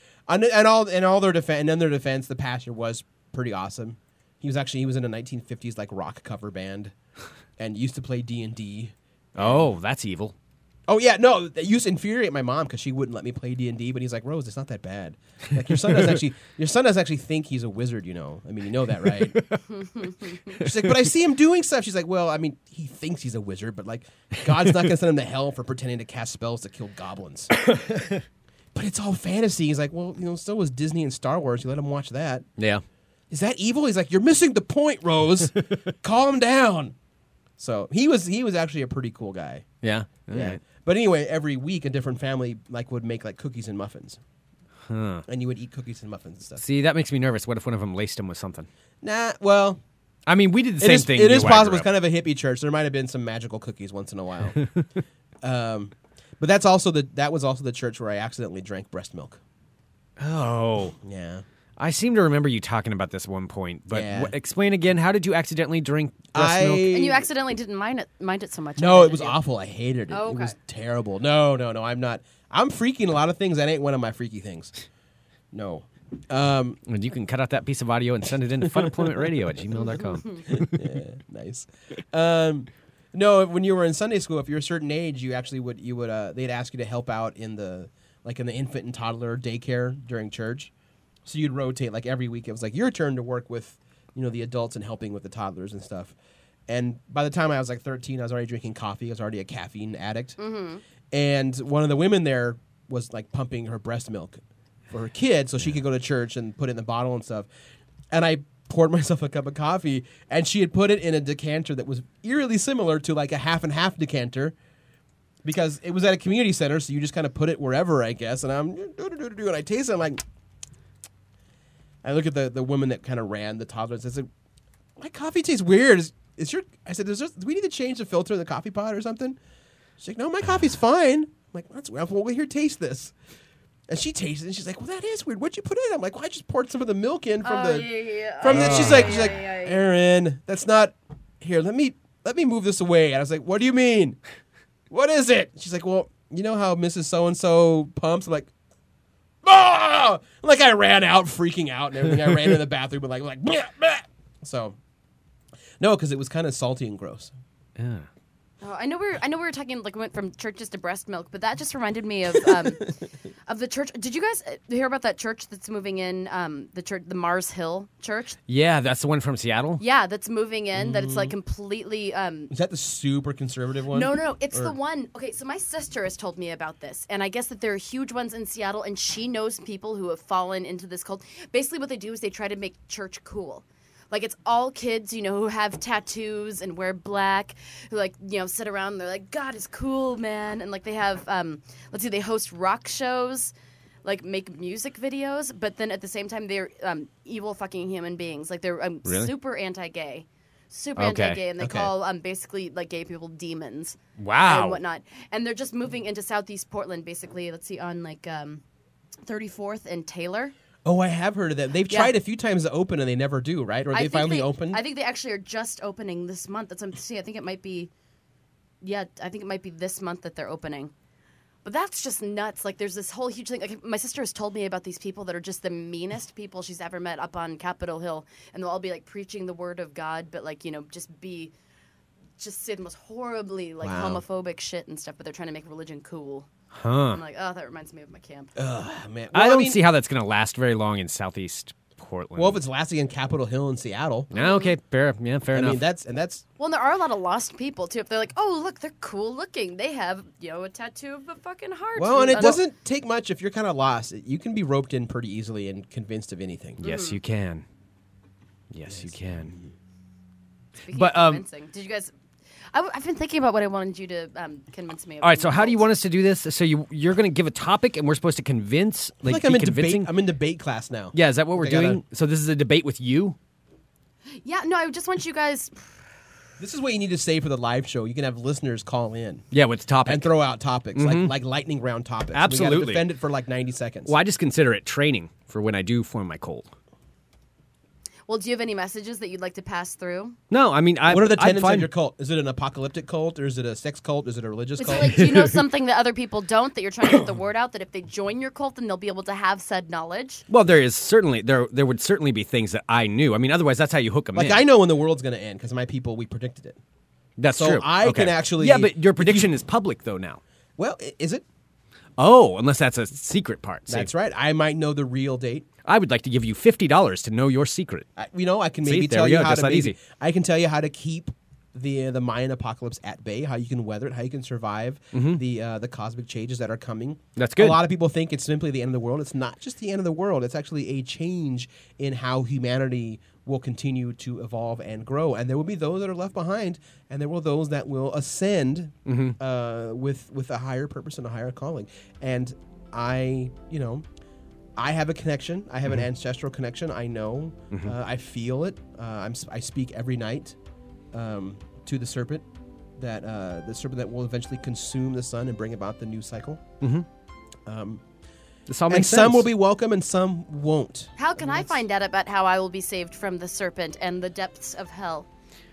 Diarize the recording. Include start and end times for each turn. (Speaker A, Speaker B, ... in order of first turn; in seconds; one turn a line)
Speaker A: 0.3-6.9
Speaker A: 7.6-9.7
Speaker B: 9.3-10.3
Speaker A: 10.9-19.4
Speaker B: 19.1-19.6
Speaker C: 19.8-20.3
Speaker B: 20.5-20.9
Speaker A: 20.5-27.6
Speaker B: 27.6-28.2
Speaker A: 28.7-32.5
Speaker B: 32.6-32.8
Speaker A: 33.3-36.9
Speaker A: 37.6-39.7
Speaker B: 39.8-40.6
Speaker A: 40.3-44.2
Speaker B: 44.9-45.2
Speaker A: 45.3-46.6
Speaker B: 46.6-48.7
Speaker A: 49.0-49.8
Speaker B: 50.3-51.9
Speaker A: 50.8-54.6
Speaker A: 55.4-59.4
Speaker B: 60.2-60.9
Speaker A: 61.0-61.4
Speaker B: 61.8-66.9
Speaker A: 63.9-64.3
Speaker A: 66.3-67.2
Speaker C: 66.9-69.4
Speaker A: 68.8-74.7
Speaker C: 70.1-70.5
Speaker A: 75.5-76.8
Speaker B: 76.9-80.9
Speaker C: 79.9-80.4
Speaker A: 80.5-90.7
Speaker A: 91.2-96.1
Speaker A: 96.7-100.4
Speaker C: 100.4-100.8
Speaker A: 101.1-107.5
Speaker A: 108.1-114.5
Speaker A: 115.4-120.2
Speaker A: 122.0-124.3
Speaker A: 125.0-129.4
Speaker A: 130.0-133.1
Speaker A: 133.9-144.2
Speaker C: 137.4-139.8
Speaker B: 138.4-139.1
Speaker A: 144.9-148.5
Speaker A: 149.4-154.8
Speaker A: 155.8-157.3
Speaker B: 157.8-158.1
Speaker C: 158.6-162.9
Speaker C: 163.5-168.4
Speaker B: 168.5-169.8
Speaker C: 169.8-172.5
Speaker A: 170.7-171.3
Speaker A: 172.5-174.7
Speaker C: 173.9-193.5
Speaker C: 194.0-208.6
Speaker B: 199.1-199.3
Speaker B: 201.0-201.4
Speaker A: 201.6-201.9
Speaker B: 204.2-204.8
Speaker C: 209.2-210.5
Speaker A: 210.8-214.8
Speaker C: 211.9-212.1
Speaker C: 213.9-217.9
Speaker C: 218.8-220.9
Speaker C: 221.6-231.5
Speaker C: 232.4-236.5
Speaker A: 233.8-234.2
Speaker B: 236.7-237.2
Speaker C: 237.1-238.5
Speaker A: 238.6-239.8
Speaker B: 239.3-242.6
Speaker A: 242.3-244.3
Speaker B: 244.3-245.8
Speaker C: 244.3-244.8
Speaker A: 245.5-246.4
Speaker C: 246.6-252.6
Speaker A: 251.9-256.8
Speaker B: 256.8-257.6
Speaker C: 256.8-257.2
Speaker B: 258.7-259.5
Speaker A: 258.9-259.7
Speaker C: 260.9-262.1
Speaker B: 260.9-261.4
Speaker C: 262.7-265.8
Speaker B: 265.2-270.1
Speaker A: 269.2-272.0
Speaker B: 271.1-273.4
Speaker C: 274.4-275.9
Speaker A: 276.6-279.4
Speaker B: 279.5-280.3
Speaker A: 280.0-284.1
Speaker B: 280.9-281.3
Speaker B: 282.3-283.1
Speaker B: 284.1-286.7
Speaker C: 288.3-290.4
Speaker B: 290.5-291.9
Speaker A: 291.1-295.4
Speaker C: 294.8-300.4
Speaker B: 295.1-295.6
Speaker B: 300.5-304.6
Speaker A: 304.3-306.8
Speaker B: 307.4-310.4
Speaker A: 307.5-309.5
Speaker A: 310.8-311.4
Speaker B: 312.2-314.1
Speaker A: 313.9-315.7
Speaker B: 315.8-318.1
Speaker A: 318.2-344.0
Speaker B: 318.8-319.9
Speaker B: 325.1-325.4
Speaker B: 327.4-327.8
Speaker B: 339.1-339.4
Speaker A: 344.8-350.6
Speaker A: 351.1-352.4
Speaker A: 353.0-356.6
Speaker B: 356.8-357.1
Speaker A: 357.6-358.0
Speaker B: 358.7-359.5
Speaker A: 358.9-361.8
Speaker C: 361.2-365.3